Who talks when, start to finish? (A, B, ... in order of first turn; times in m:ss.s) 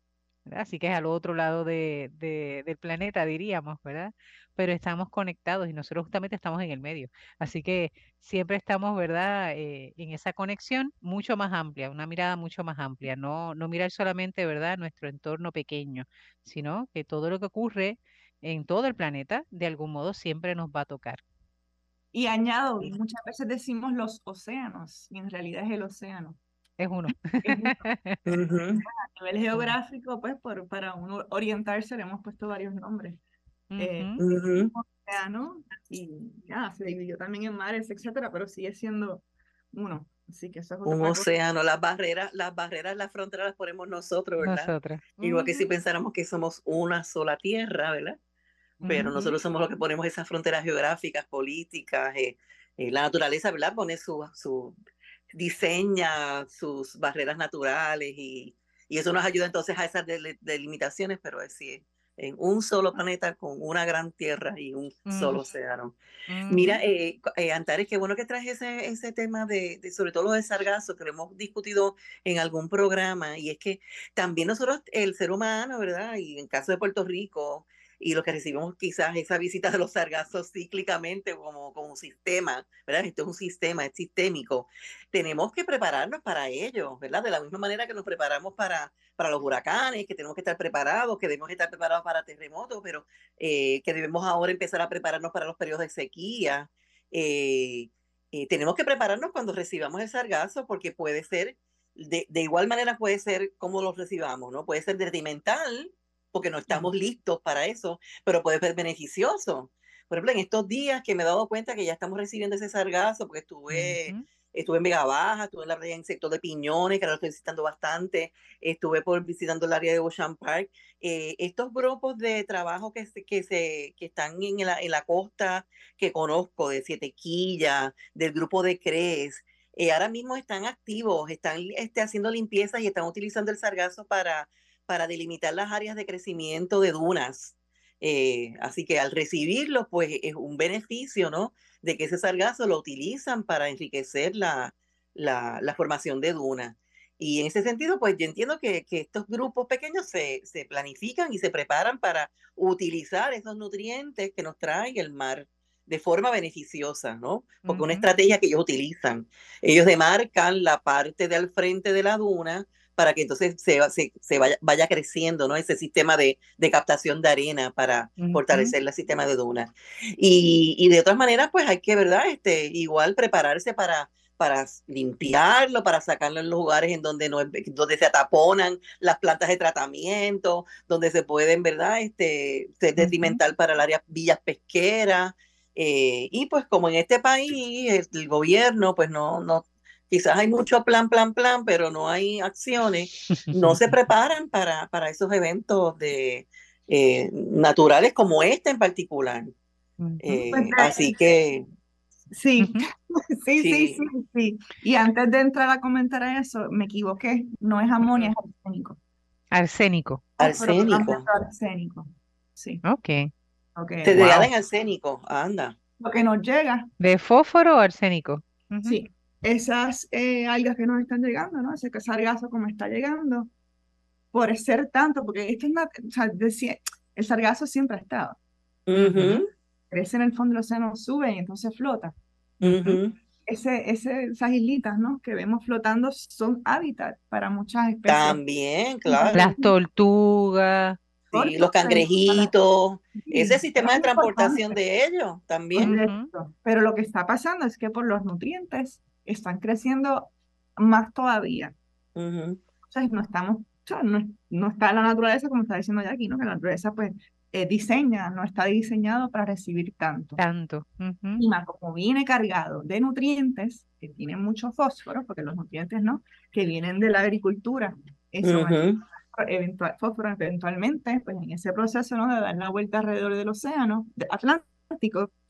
0:00.4-0:21.2 A
0:22.1-0:26.4 B
0:26.8-0:28.2 A
0:27.4-0:27.8 B
0:28.3-0:28.8 C
0:28.8-0:33.2 B
0:33.7-0:34.2 A
0:33.8-0:41.3 B
0:34.2-0:34.7 C
0:40.8-0:48.2 C
0:44.4-0:45.6 A
0:48.8-0:49.3 A
0:48.9-0:54.8 C
0:55.3-1:06.0 C
1:05.1-1:05.4 A
1:06.3-1:06.8 A
1:06.5-3:19.5 C
1:53.7-1:54.2 A
2:37.6-2:38.0 A
2:48.2-2:48.7 A
3:03.0-3:03.4 A
3:13.3-3:13.9 A
3:20.0-3:20.2 A
3:20.2-3:21.6 C
3:20.3-3:21.1 B
3:22.3-3:29.0 B
3:22.6-3:22.8 A
3:23.6-3:24.0 C
3:29.5-3:30.2 A
3:30.4-3:31.2 C
3:30.4-3:32.8 B
3:32.8-3:33.3 A
3:33.8-3:34.2 B
3:34.0-3:35.8 C
3:34.1-3:34.5 A
3:36.0-3:36.9 B
3:37.0-3:39.0 A
3:38.8-3:43.5 B
3:44.3-3:48.4 B
3:48.9-3:49.5 C
3:49.0-3:49.4 A
3:49.9-3:52.1 B
3:52.6-3:53.0 A
3:52.6-3:53.1 C
3:53.4-3:58.4 B
3:58.0-3:59.4 C
3:59.1-3:59.7 B
3:59.3-4:01.0 A
4:01.3-4:05.9 C
4:01.3-4:02.5 B
4:03.2-4:04.8 B
4:05.8-4:11.7 B
4:05.8-4:06.3 A
4:12.2-4:12.6 C
4:12.9-4:20.4 B
4:20.4-4:21.4 A
4:21.4-4:35.3 B
4:28.4-4:29.0 C